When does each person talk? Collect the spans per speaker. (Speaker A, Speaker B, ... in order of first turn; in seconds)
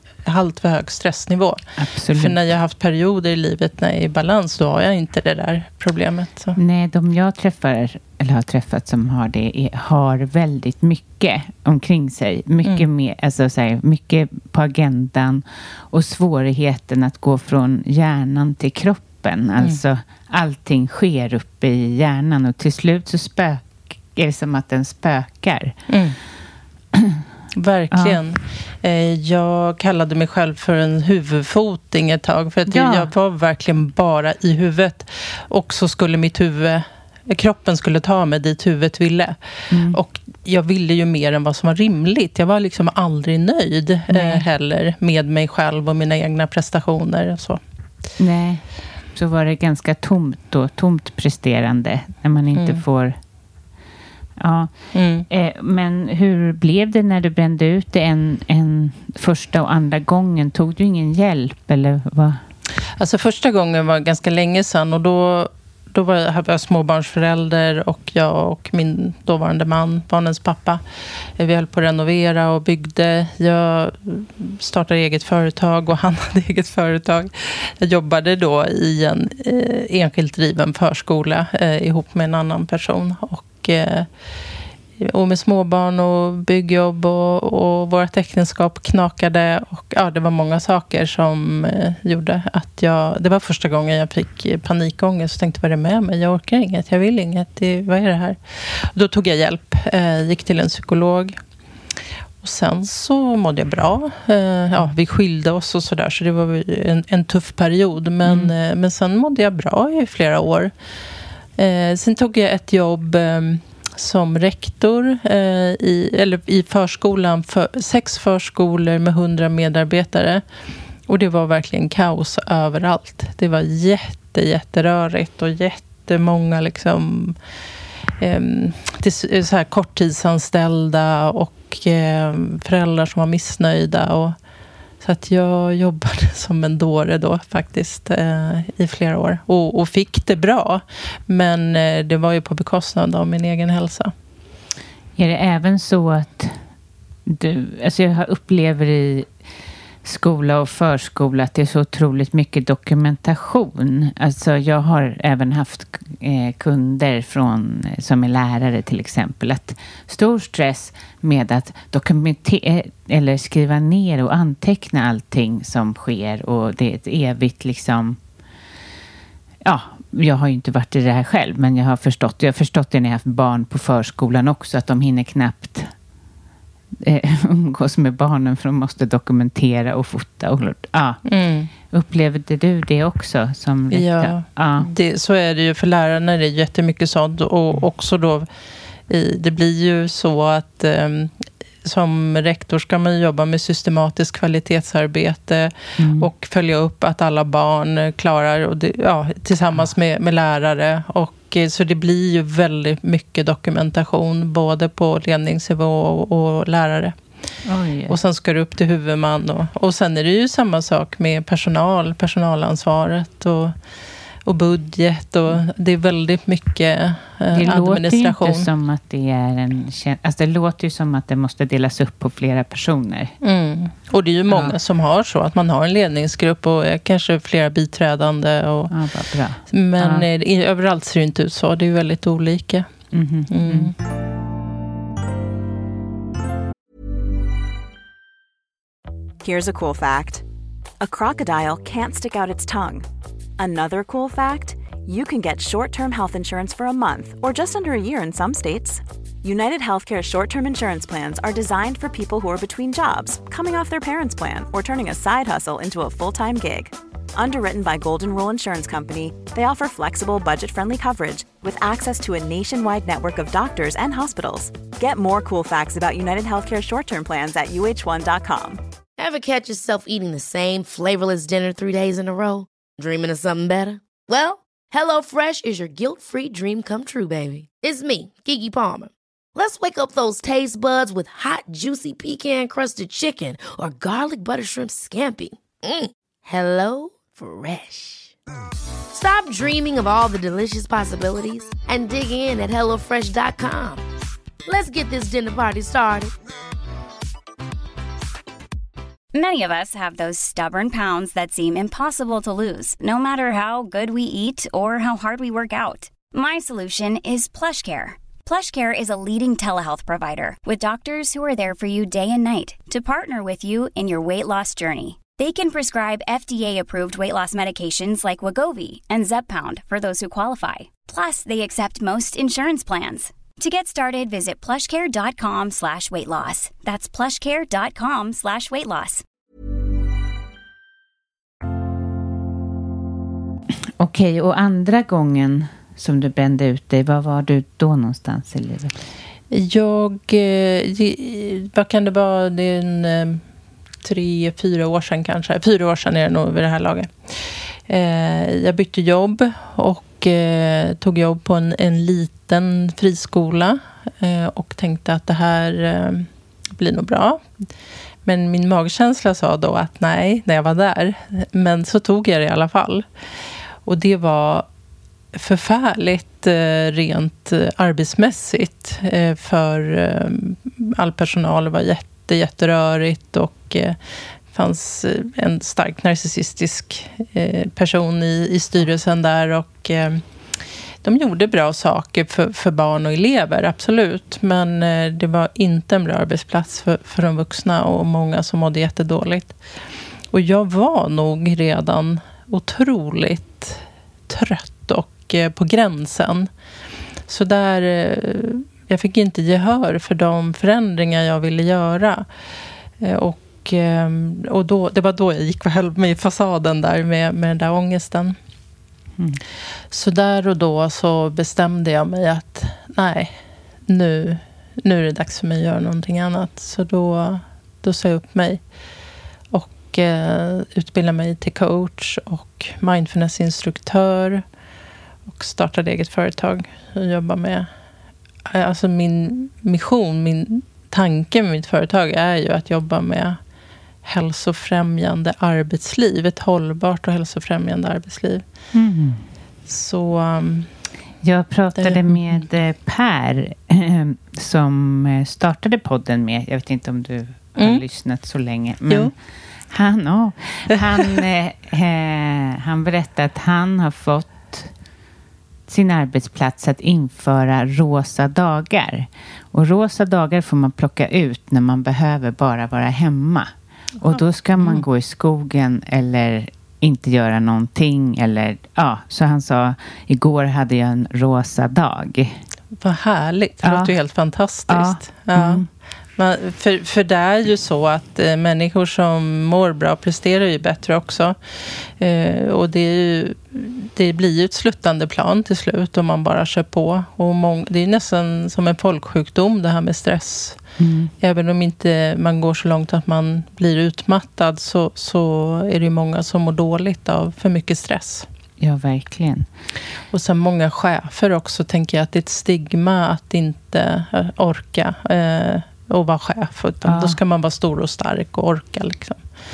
Speaker A: 0.2-6.6, 25.9-26.2, 27.5-47.6, 52.5-52.8, 54.9-55.3, 63.0-70.8, 71.4-84.1, 85.0-101.4, 102.4-110.7, 111.5-120.4, 121.1-127.4, 128.2-134.4, 135.0-144.1, 181.2-181.7, 183.9-188.5, 189.1-207.2, 208.1-213.8, 214.4-218.7, 223.4-228.9, 229.7-232.9, 233.5-233.9, 339.5-343.4, 344.0-357.5, 358.2-363.1, 363.8-364.6, 365.3-374.0, 374.5-380.2, 381.0-389.6, 390.3-396.5, 397.3-402.3, 403.0-408.4, 409.9-418.6, 419.5-424.4, 425.3-427.7, 428.4-433.4, 434.0-438.4, 439.7-440.7, 441.8-442.4, 447.6-447.8, 464.0-464.8, 472.8-475.6, 476.1-490.6, 491.2-498.3, 500.1-509.2
Speaker B: 1.8-2.4, 6.5-25.8, 26.9-27.2, 27.9-28.2, 32.7-33.1, 39.7-40.0, 44.1-44.4, 48.2-48.6, 49.1-53.2, 54.4-54.7, 55.3-62.4, 108.2-108.5, 145.2-146.6, 147.2-149.3, 150.0-168.2, 169.6-175.9, 177.0-181.2, 181.9-184.9, 196.0-196.3, 207.7-208.2, 217.5-223.3, 224.5-224.7, 228.9-230.3, 233.1-233.9, 334.0-338.9, 438.7-439.2, 441.2-449.1, 449.7-454.7, 455.7-472.4, 473.6-473.9, 474.7-475.7, 490.8-491.1, 498.6-499.5, 506.8-507.2
Speaker C: 239.4-240.4, 241.0-243.1, 243.6-268.8
Speaker D: 269.2-288.3, 289.1-294.0, 294.6-296.3
Speaker E: 299.3-329.2